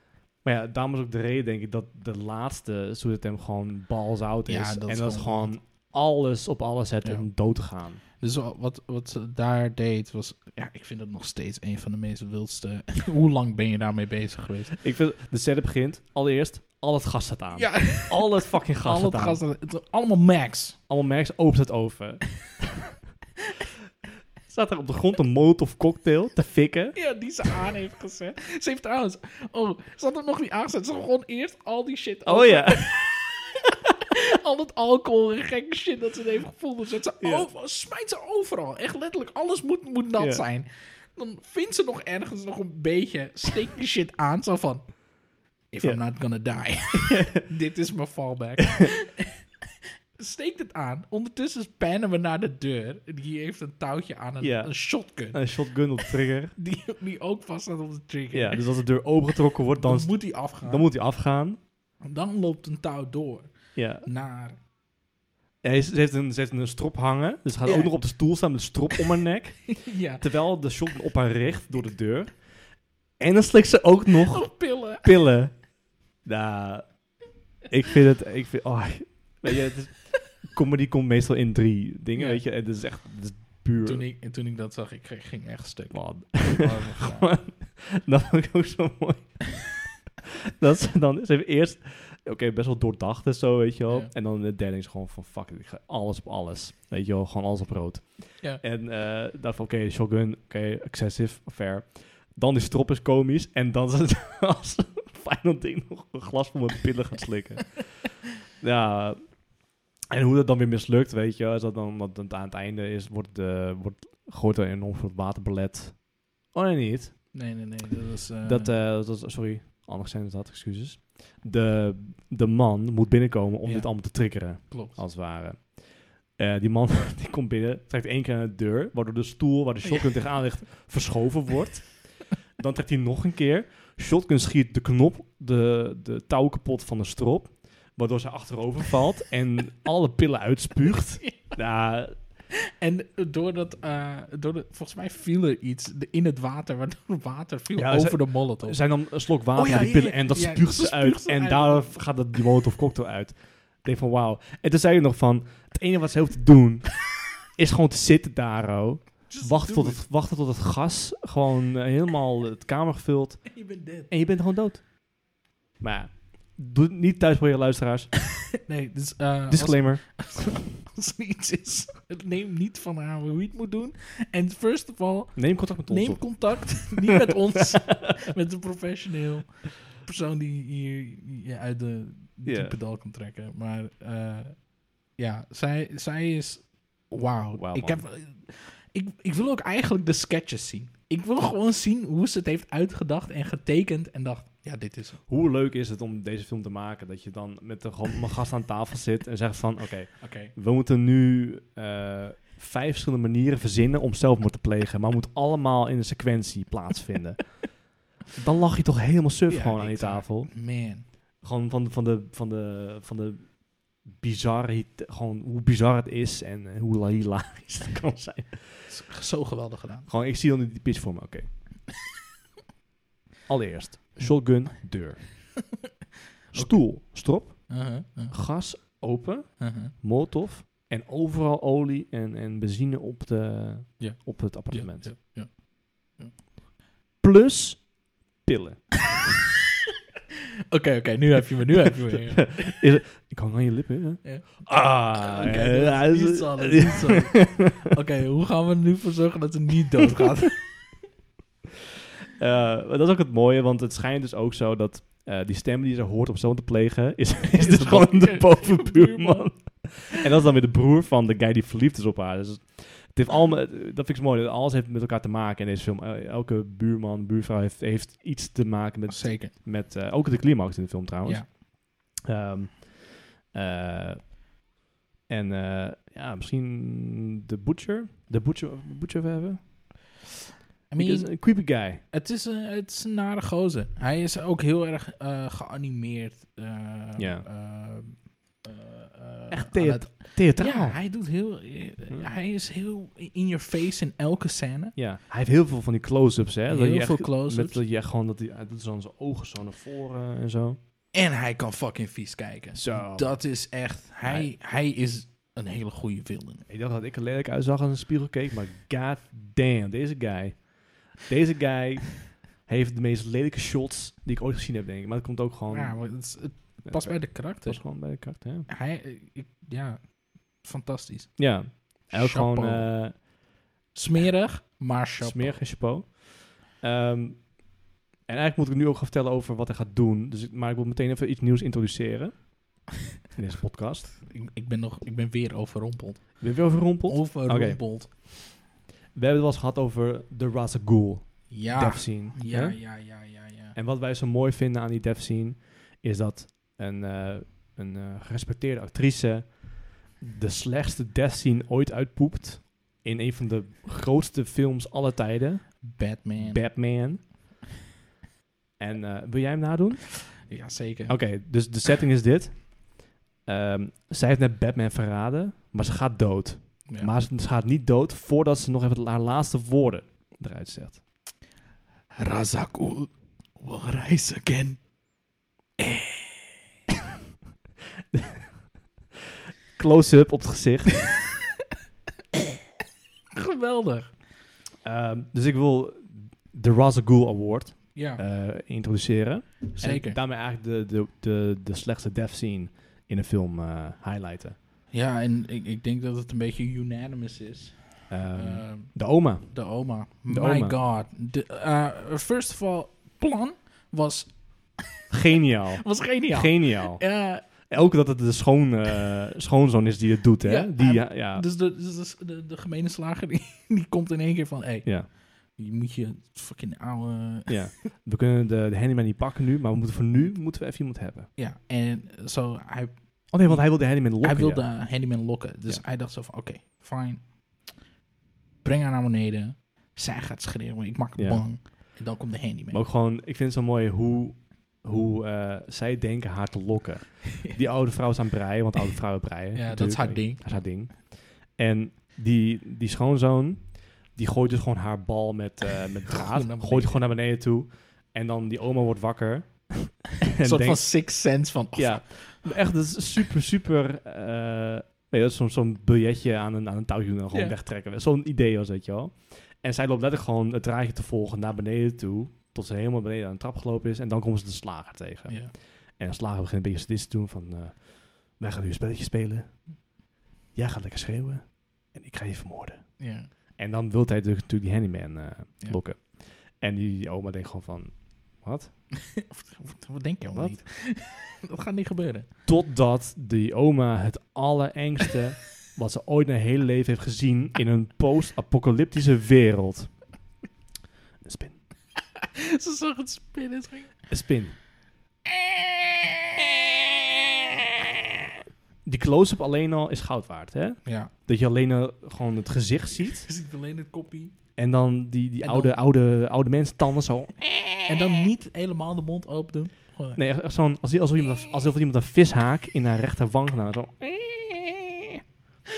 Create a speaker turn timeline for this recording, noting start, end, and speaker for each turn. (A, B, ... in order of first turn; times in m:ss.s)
0:00.4-0:08.0 A
0:04.5-0:05.6 B
0:07.0-0:07.3 B
0:08.1-0:14.8 B
0:14.8-0:19.4 A
0:17.6-0:20.8 B
0:20.9-0:22.4 A
0:24.5-0:27.0 A
0:27.0-0:45.1 B
0:32.3-0:33.0 A
0:37.2-0:37.5 A
0:40.2-0:40.4 A
0:45.7-0:49.4 B
0:46.9-0:47.4 A
0:50.2-0:58.6 B
0:54.4-0:56.6 A
0:58.3-1:01.6 A
0:59.8-1:00.9 B
1:02.0-1:04.6 B
1:03.8-1:04.1 A
1:05.6-1:24.0 A
1:07.6-1:07.9 B
1:09.8-1:10.3 B
1:14.3-1:15.1 B
1:22.2-1:22.4 B
1:23.8-1:27.4 B
1:25.9-1:29.8 A
1:30.6-1:49.4 A
1:33.9-1:34.1 B
1:50.1-1:57.3 A
1:57.3-1:58.8 B
1:58.4-2:22.2 A
2:03.6-2:05.0 B
2:09.8-2:10.1 B
2:21.2-2:21.6 B
2:22.6-2:32.4 B
2:27.8-2:48.2 A
2:39.3-2:40.0 B
2:43.5-2:44.1 B
2:48.6-3:15.2 B
2:49.5-2:50.5 A
2:55.4-2:58.1 A
3:02.4-3:02.8 A
3:07.5-3:08.0 A
3:15.3-3:30.8 A
3:20.2-3:20.5 B
3:29.5-3:31.0 B
3:31.4-3:38.9 A
3:38.9-3:40.1 B
3:40.1-3:41.6 A
3:43.5-3:45.6 A
3:46.5-3:55.1 A
3:46.5-3:47.0 B
3:47.7-3:48.4 B
3:49.6-3:50.0 B
3:54.0-3:56.4 B
3:57.2-3:58.9 A
4:00.7-4:02.8 B
4:02.4-4:07.6 A
4:04.2-4:10.7 B
4:12.4-4:34.3 A
4:17.5-4:19.8 B
4:29.1-4:29.5 B
4:35.3-4:40.0 A
4:40.9-4:55.0 B
4:41.0-4:42.0 A
4:47.2-4:47.5 A
4:49.5-4:51.0 A
4:55.0-5:00.8 A
4:56.7-4:57.8 B
5:01.1-5:06.7 B
5:02.8-5:04.5 A
5:06.7-5:18.7 A
5:15.7-5:18.0 B
5:18.7-5:23.2 B
5:21.4-5:23.2 A
5:23.9-5:25.6 B
5:25.2-5:27.7 A
5:28.3-5:32.8 A
5:33.4-5:34.1 A
5:34.2-5:38.1 B
5:36.4-5:38.2 A
5:39.1-5:43.1 A
5:41.5-5:43.8 B
5:43.8-5:57.3 A
5:55.8-5:57.2 B
5:58.8-6:00.4 A
6:00.4-6:01.7 B
6:01.1-6:11.0 A
6:06.9-6:07.1 B
6:12.2-6:14.8 B
6:15.8-6:16.6 B
6:19.8-6:21.1 A
6:23.3-6:24.2 B
6:24.8-6:34.6 A
6:27.9-6:28.2 B
6:29.8-6:30.2 B
6:34.9-6:44.9 B
6:38.1-6:40.8 A
6:45.1-6:51.4 A
6:45.8-6:47.7 B
6:50.4-6:57.8 B
6:54.8-6:55.1 A
6:57.5-7:01.3 A
7:01.4-7:07.8 B
7:03.3-7:05.8 A
7:08.6-7:12.8 B
7:11.2-7:12.0 A
7:12.7-7:49.8 A
7:19.5-7:20.7 B
7:26.1-7:27.0 B
7:30.4-7:32.6 B
7:45.3-7:45.5 B
7:50.5-7:58.8 A
7:53.0-7:53.3 B
7:59.2-8:02.3 B
8:00.3-8:00.6 A
8:02.5-8:10.1 A
8:11.2-8:11.6 A
8:12.2-8:14.1 B
8:14.1-8:14.6 A
8:15.3-8:16.8 B
8:18.9-8:23.3 A
8:20.8-8:21.1 B
8:23.2-8:24.4 B
8:24.6-8:27.9 A
8:25.4-8:25.8 B
8:27.9-8:30.2 B
8:30.2-8:34.8 A